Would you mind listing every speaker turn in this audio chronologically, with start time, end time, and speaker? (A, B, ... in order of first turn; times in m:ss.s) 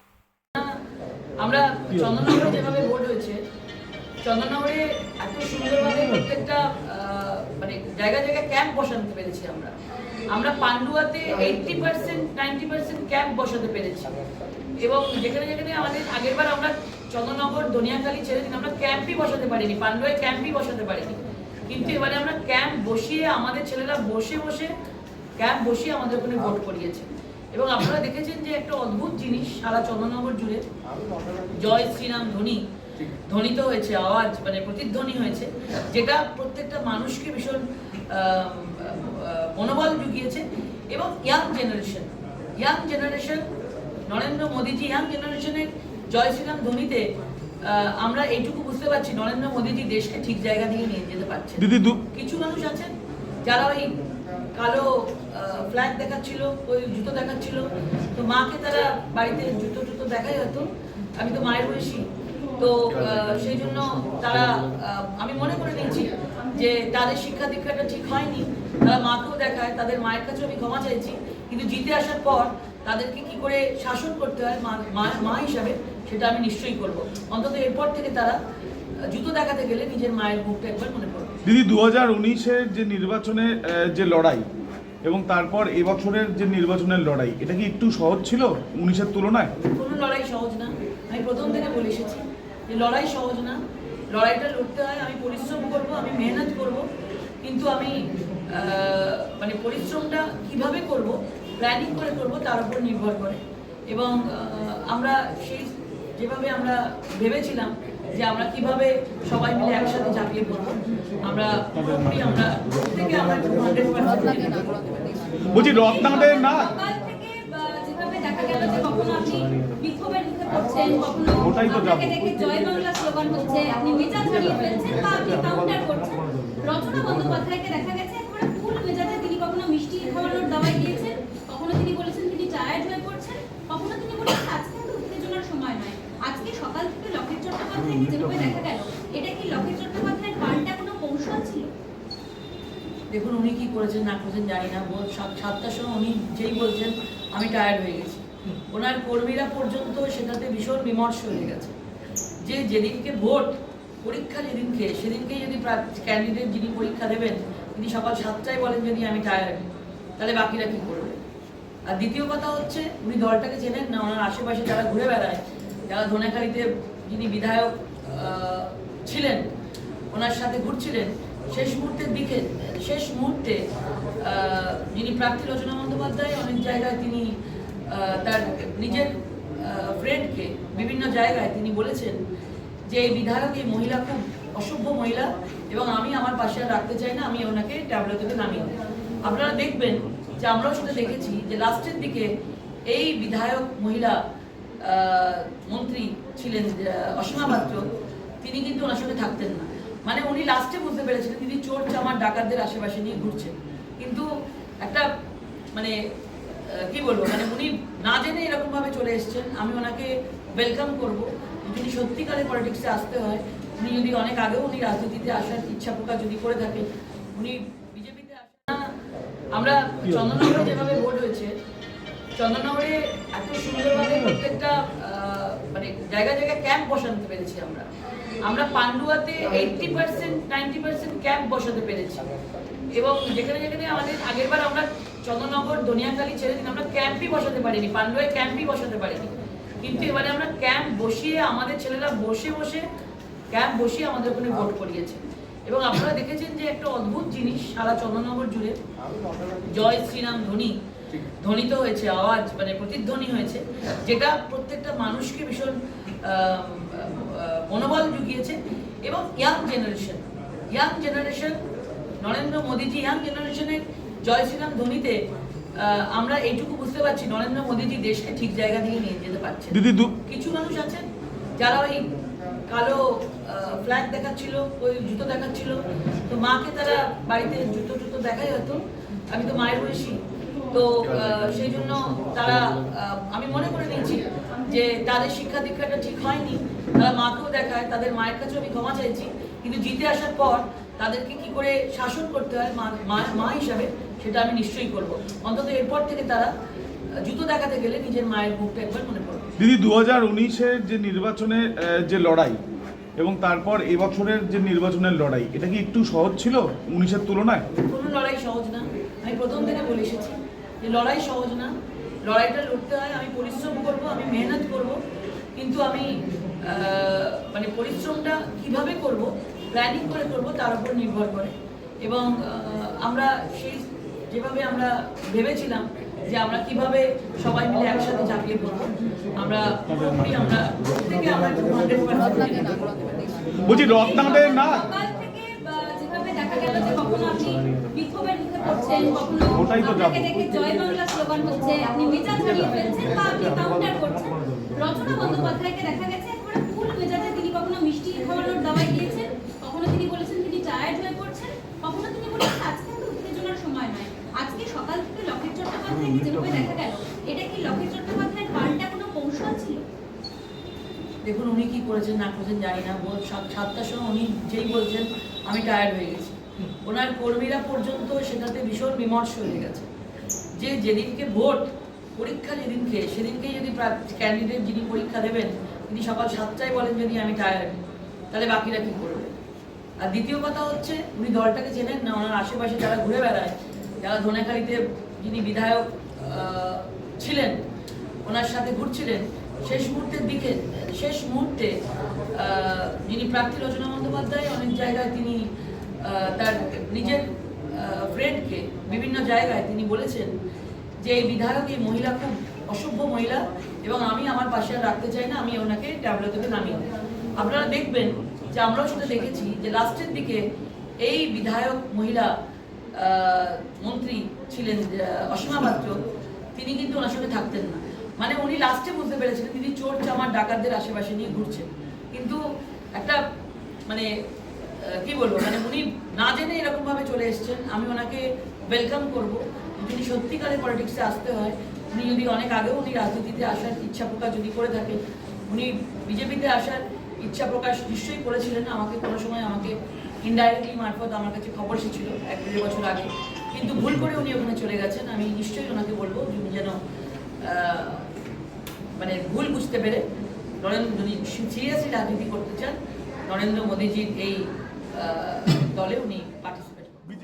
0:01.4-0:03.4 A
0:04.2-0:09.7 A
0:10.3-0:14.1 A
0:14.8-0:24.7 A
0:25.4-0:30.6 A
0:31.4-0:43.4 A
0:44.0-0:47.1 A
0:47.6-0:52.9 A
0:51.6-0:52.0 B
0:53.4-0:53.9 A
0:54.6-1:18.4 A
1:19.0-1:21.4 A
1:21.4-1:24.5 B
1:25.0-1:29.5 B
1:29.7-1:33.6 A
1:34.1-1:36.8 A
1:37.4-1:54.8 A
1:55.5-1:56.7 B
1:55.8-2:21.7 C
2:01.4-2:02.2 B
2:23.1-2:31.7 A
2:32.4-2:39.6 A
2:40.2-2:41.2 A
2:41.9-2:49.5 A
2:50.1-2:53.6 A
2:54.2-3:02.2 A
3:02.9-3:12.3 A
3:12.9-3:14.2 A
3:14.8-3:17.9 A
3:18.4-3:24.3 A
3:24.8-3:25.1 A
3:26.5-3:38.9 A
3:39.5-3:41.5 A
3:42.4-3:47.9 A
3:48.4-3:52.3 A
3:52.9-4:02.8 A
4:03.5-4:08.8 A
4:09.6-4:10.8 A
4:11.3-4:21.6 A
4:22.2-4:25.2 A
4:25.8-4:31.0 A
4:29.7-4:30.1 B
4:31.6-4:32.1 A
4:32.7-4:56.5 A
4:57.2-4:59.5 A
4:59.6-5:02.6 B
5:03.2-5:07.6 B
5:07.9-5:11.7 A
5:12.2-5:15.0 A
5:15.6-5:33.0 A
5:33.6-5:34.8 B
5:33.9-5:59.8 C
5:39.5-5:40.3 B
6:01.2-6:09.9 A
6:10.6-6:17.8 A
6:18.3-6:19.3 A
6:20.0-6:27.6 A
6:28.2-6:31.8 A
6:32.3-6:35.5 A
6:36.0-6:40.3 A
6:41.0-6:50.4 A
6:51.0-6:52.3 A
6:53.0-6:56.0 A
6:56.6-7:02.4 A
7:03.0-7:03.2 A
7:04.8-7:15.0 A
7:15.5-7:26.8 A
7:27.4-7:28.1 A
7:29.0-7:30.0 A
7:30.6-7:37.0 A